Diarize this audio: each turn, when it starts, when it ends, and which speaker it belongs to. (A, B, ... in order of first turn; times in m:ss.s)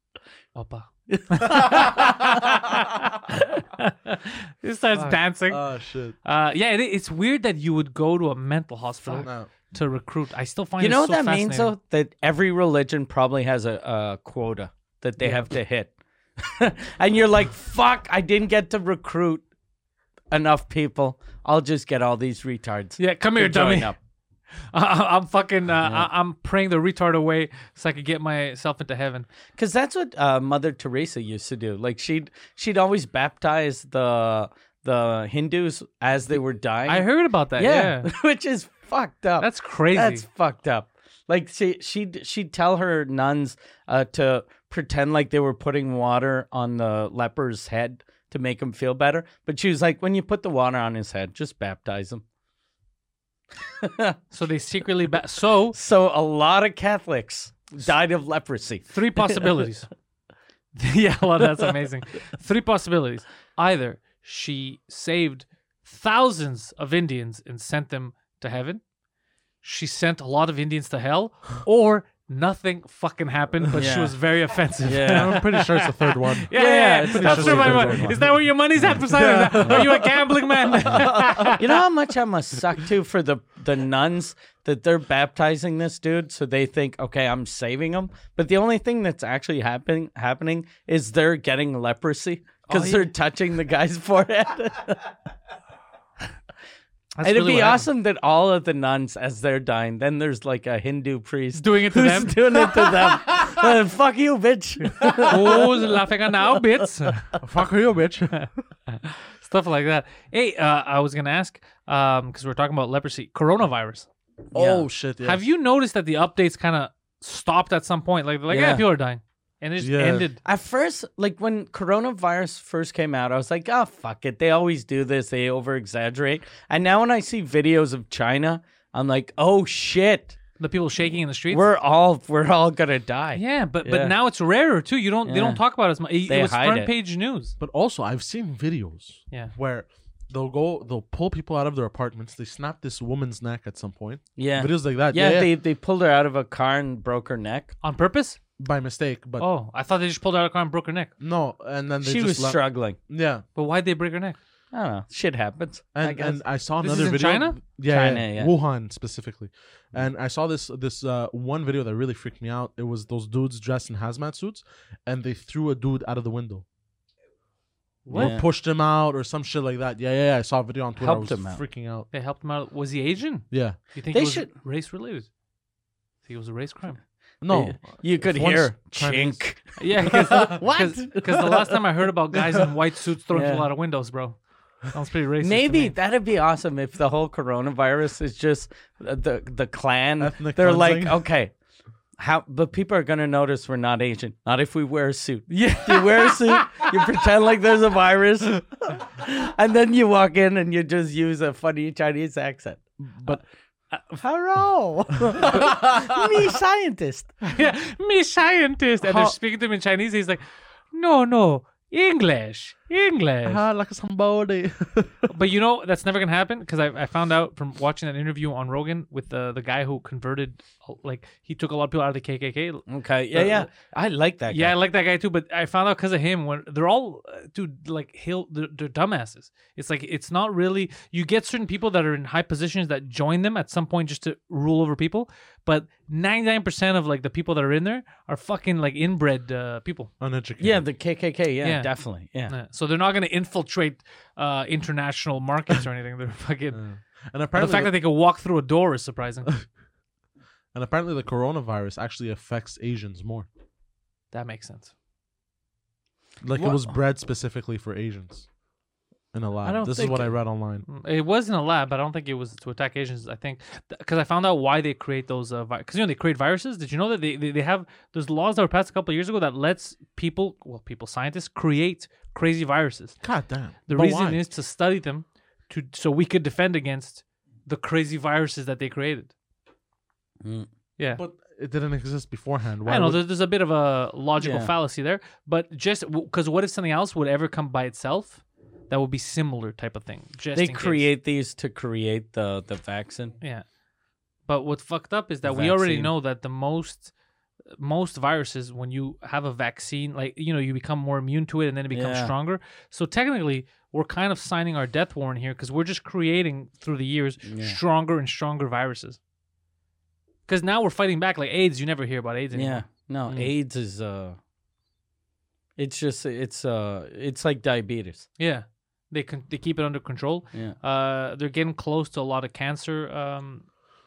0:00.6-0:05.6 A
0:01.1-0:02.2 B
0:05.5-0:06.2 C
0:06.2-0:11.7 A
0:09.2-0:09.5 C
0:10.8-0:19.4 B
0:20.3-0:24.0 B
0:23.0-0:23.9 A
0:24.7-0:29.3 A
0:29.6-0:52.2 B
0:36.9-0:38.1 A
0:39.4-0:40.2 A
0:53.8-0:54.2 B
0:54.3-0:55.8 A
0:55.7-0:59.5 B
0:58.9-0:59.9 A
1:00.8-1:08.8 A
1:09.6-1:21.8 A
1:13.8-1:14.2 B
1:14.8-1:15.4 B
1:15.1-1:18.3 C
1:16.5-1:18.2 B
1:18.8-1:21.6 C
1:21.5-1:35.1 B
1:32.7-1:33.1 A
1:37.2-1:37.9 A
1:37.2-1:45.9 B
1:41.6-1:42.7 A
1:45.0-1:47.3 A
1:45.0-1:45.3 C
1:47.4-1:48.5 C
1:48.3-2:00.4 A
1:54.5-1:54.9 B
1:54.5-1:55.4 C
1:58.5-1:58.9 B
1:59.8-2:00.3 C
2:00.4-2:10.4 B
2:10.6-2:11.7 A
2:11.5-2:14.1 B
2:13.4-2:17.5 A
2:15.3-2:15.6 B
2:16.2-2:16.9 B
2:17.6-2:25.5 C
2:24.4-2:27.7 B
2:27.8-2:28.4 A
2:28.6-2:29.5 C
2:29.4-2:31.1 A
2:31.2-2:33.4 C
2:32.0-2:33.0 B
2:33.6-2:34.4 A
2:34.7-2:36.4 B
2:36.0-2:46.6 C
2:36.8-2:37.6 A
2:37.9-2:38.5 B
2:48.0-2:48.4 A
2:48.1-2:52.1 C
2:48.1-2:48.4 B
2:51.0-2:51.6 B
2:52.1-2:55.3 A
2:53.5-2:53.8 C
2:54.1-2:54.5 B
2:56.2-2:57.0 A
2:57.4-2:59.4 C
2:57.5-3:01.5 B
2:59.8-3:05.9 A
3:00.1-3:00.6 C
3:03.3-3:03.7 B
3:05.4-3:11.5 B
3:10.2-3:11.2 C
3:12.2-3:22.8 B
3:15.5-3:16.9 A
3:23.0-3:23.4 C
3:23.9-3:24.2 A
3:24.2-3:27.4 B
3:25.4-3:26.4 C
3:27.4-3:33.6 A
3:29.0-3:29.4 C
3:33.5-3:35.3 C
3:35.3-3:42.8 A
3:42.9-3:44.8 B
3:43.3-3:43.6 A
3:44.5-4:00.1 A
4:00.2-4:00.8 C
4:00.6-4:02.5 B
4:01.6-4:01.9 A
4:02.5-4:06.8 A
4:06.7-4:08.0 C
4:07.5-4:09.5 A
4:10.7-4:13.5 C
4:14.3-4:14.9 A
4:16.4-4:18.5 C
4:16.6-4:16.8 B
4:19.3-4:20.8 C
4:19.6-4:20.3 A
4:20.9-4:33.2 A
4:33.2-4:34.5 C
4:33.9-4:39.3 A
4:40.4-4:40.7 B
4:41.2-4:43.2 C
4:42.9-4:51.1 A
4:44.4-4:44.7 B
4:50.6-4:53.4 B
4:54.5-4:57.1 A
4:55.4-4:56.1 B
4:57.8-5:09.2 A
5:01.9-5:02.3 B
5:07.4-5:07.8 B
5:10.5-5:12.8 A
5:12.5-5:14.4 B
5:13.3-5:13.5 C
5:15.8-5:18.3 B
5:18.4-5:23.7 A